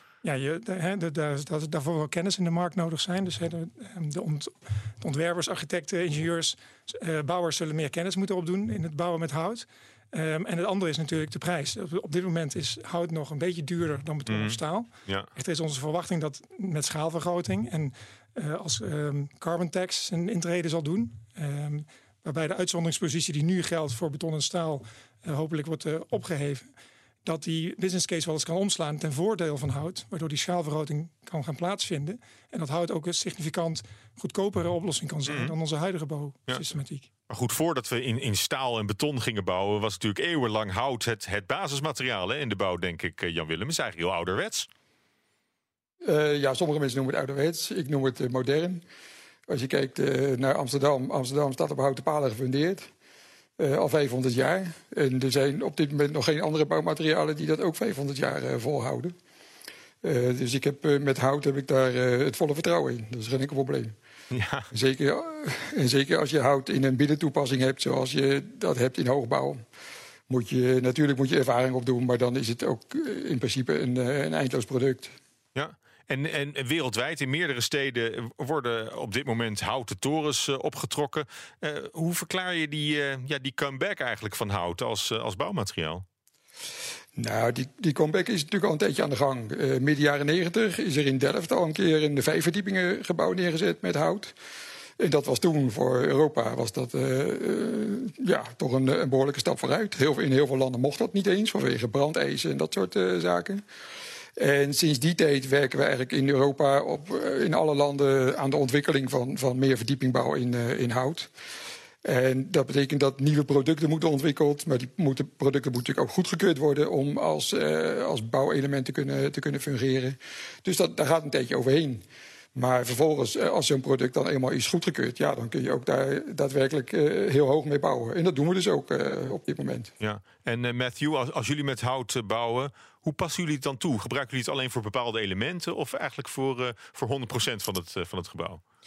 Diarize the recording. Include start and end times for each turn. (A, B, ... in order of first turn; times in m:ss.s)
0:00.2-0:26.7 A
0:14.3-0:15.3 B
0:27.2-0:37.1 A
0:35.3-0:35.5 B
0:37.3-0:44.7 B
0:46.0-0:48.8 C
0:49.5-0:52.9 C
0:53.6-0:59.1 C
1:00.0-1:04.0 C
1:04.3-1:04.7 B
1:04.7-1:09.6 C
1:10.3-1:15.2 C
1:15.6-1:26.0 B
1:27.2-1:34.3 C
1:35.0-1:43.6 C
1:44.4-1:51.3 C
1:52.0-2:09.9 C
2:10.0-2:18.6 B